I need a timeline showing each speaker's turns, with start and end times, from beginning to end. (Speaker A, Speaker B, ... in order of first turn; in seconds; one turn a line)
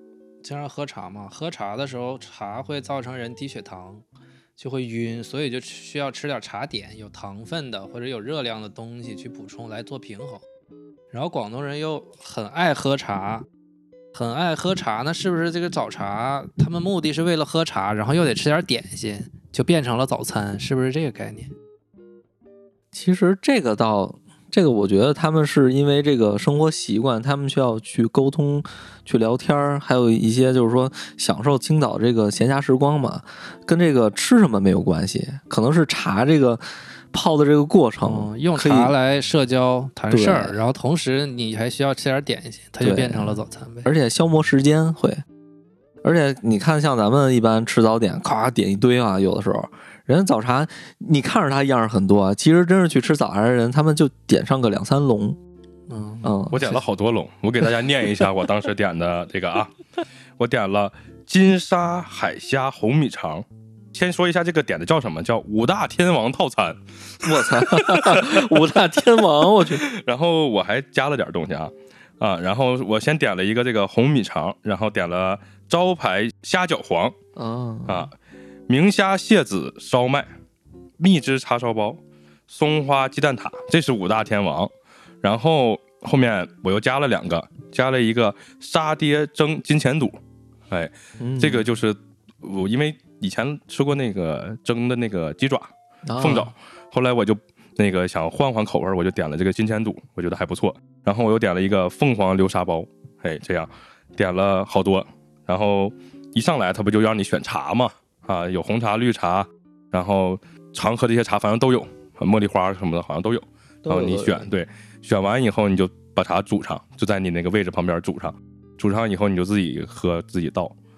Speaker A: 0.4-4.0
Speaker A: 4.6-10.4
Speaker A: 11.1-13.4
Speaker A: 14.1-21.5
Speaker B: 22.9-38.9
Speaker A: 38.0-43.9
Speaker B: 40.1-40.6
Speaker B: 42.8-45.2
Speaker B: 46.0-55.4
Speaker A: 55.9-56.5
Speaker B: 56.2-56.7
Speaker C: 56.5-59.7
Speaker C: 60.4-68.6
Speaker B: 67.2-69.8
Speaker C: 69.7-77.1
Speaker B: 77.3-78.1
Speaker C: 77.9-78.1
Speaker C: 78.7-80.3
Speaker C: 81.0-84.7
Speaker C: 85.2-90.2
Speaker C: 90.7-120.7
Speaker B: 91.2-91.7
Speaker B: 96.0-96.5
Speaker B: 113.8-114.5